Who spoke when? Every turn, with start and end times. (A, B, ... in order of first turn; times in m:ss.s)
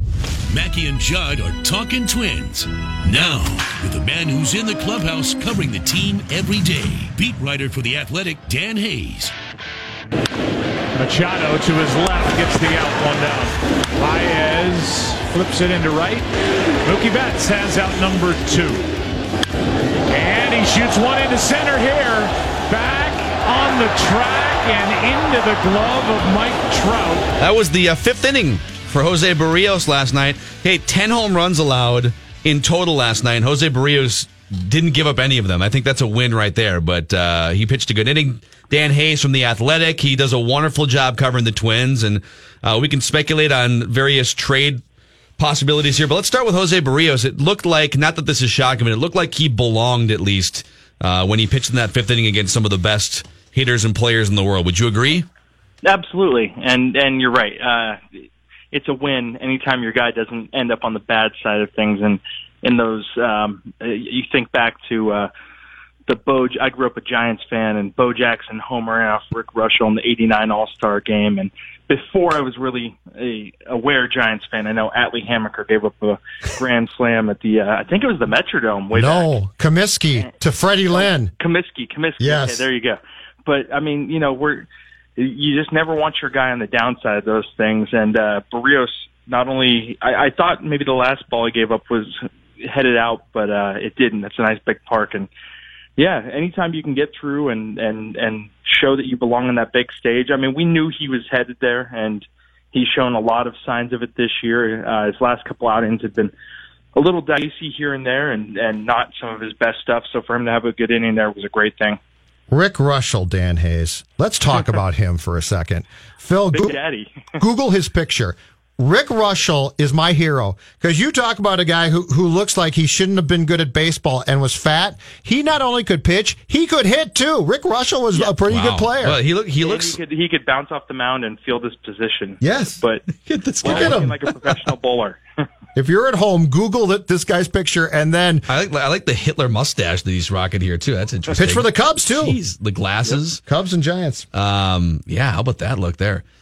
0:00.5-0:09.3 A
0:10.9-0:16.3 B
0:16.8-0:18.8 B
0:20.1-0:27.3 B
0:27.4-0:44.8 C
0:45.4-0:55.3 C
0:55.8-0:58.0 D
0:58.7-1:05.3 D
1:06.1-1:19.4 D
1:18.9-1:21.3 E
1:20.9-1:35.3 D
1:22.2-1:22.7 E
1:36.0-1:46.3 D
1:46.9-1:52.0 D
1:52.5-1:56.8 E
1:56.5-1:57.2 D
1:57.4-2:09.2 E
2:08.5-2:10.0 C
2:09.6-2:13.0 D
2:12.4-2:12.8 E
2:13.1-2:14.1 C
2:13.6-2:15.2 D
2:13.6-2:14.1 E
2:15.8-2:18.4 E
2:18.5-2:23.4 C
2:21.3-2:22.4 E
2:23.5-2:24.2 E
2:24.3-2:26.2 C